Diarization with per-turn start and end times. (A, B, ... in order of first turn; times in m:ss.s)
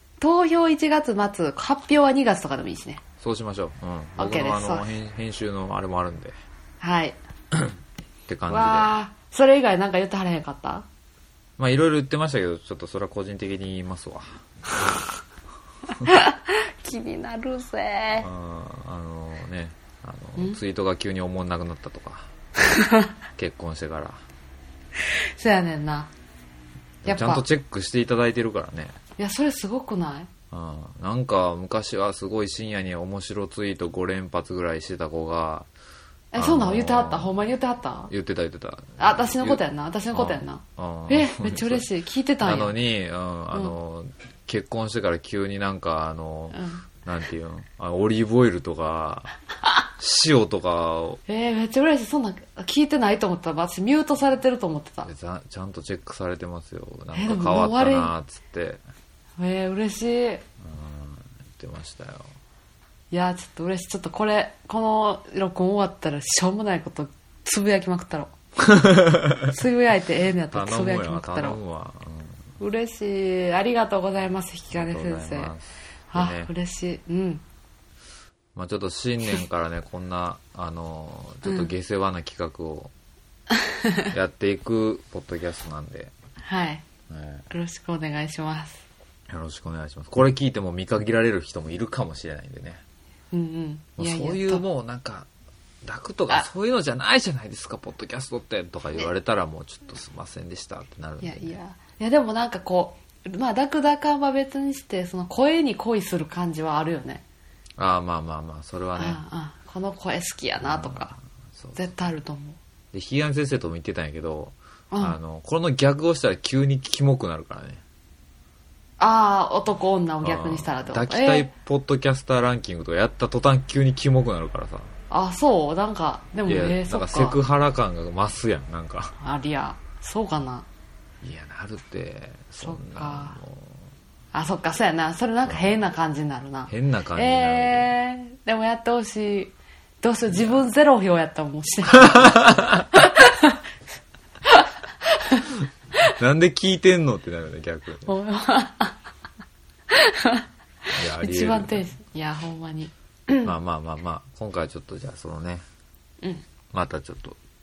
0:00.2-0:03.0 A
0:03.2-0:06.4 B
0:04.2-0:04.9 A
0:06.8-0:07.2 A
0:08.3-0:08.9 B
0:08.5-0:10.9 A
0:11.6-0:14.4 B
0:16.0-0:18.3 A
0:18.2-0:22.3 B
0:22.6-0:23.1 A
0:23.4-0:24.2 B
0:25.0-0:26.1 A
0:27.0-0:29.0 B
0:27.0-0:27.4 A
0:29.2-0:30.3 A
0:30.5-0:35.7 B
0:36.3-0:38.1 A
0:36.4-0:37.3 B
0:38.1-0:39.6 B
0:39.0-0:42.8 A
0:40.1-0:41.9 B
0:42.4-0:49.3 B
0:46.5-0:46.8 A
0:50.0-0:51.2 B
0:51.3-0:55.1 A
0:55.0-0:58.8 B
0:57.1-0:58.1 A
0:59.4-1:00.4 A
1:00.6-1:02.3 B
1:03.1-1:08.3 A
1:08.6-1:09.5 B
1:09.5-1:11.6 A
1:10.5-1:12.4 B
1:12.6-1:15.5 A
1:14.7-1:16.5 B
1:16.1-1:17.4 A
1:18.5-1:22.9 B
1:21.4-1:21.7 A
1:23.5-1:24.1 A
1:24.1-1:26.1 B
1:26.4-1:26.8 A
1:27.1-1:27.4 B
1:27.5-1:28.8 A
1:29.3-1:32.8 B
1:33.3-1:34.6 A
1:34.0-1:35.3 B
1:35.8-1:41.6 B
1:41.2-1:47.2 A
1:47.8-1:49.2 B
1:49.0-1:51.1 A
1:50.6-1:51.8 B
1:51.7-1:52.6 A
1:52.9-1:57.8 B
1:54.9-1:55.2 A
1:59.0-2:01.5 A
2:00.2-2:04.9 B
2:05.1-2:07.4 A
2:06.4-2:09.1 B
2:09.2-2:10.6 A
2:11.2-2:13.8 B
2:12.6-2:13.4 A
2:14.3-2:23.6 A
2:16.7-2:17.9 B
2:20.3-2:20.6 B
2:21.9-2:22.9 B
2:24.4-2:25.5 A
2:26.1-2:28.1 B
2:28.0-2:29.0 A
2:29.9-2:30.5 A
2:30.9-2:31.9 B
2:31.1-2:33.5 A
2:33.4-2:35.6 B
2:36.7-2:37.4 B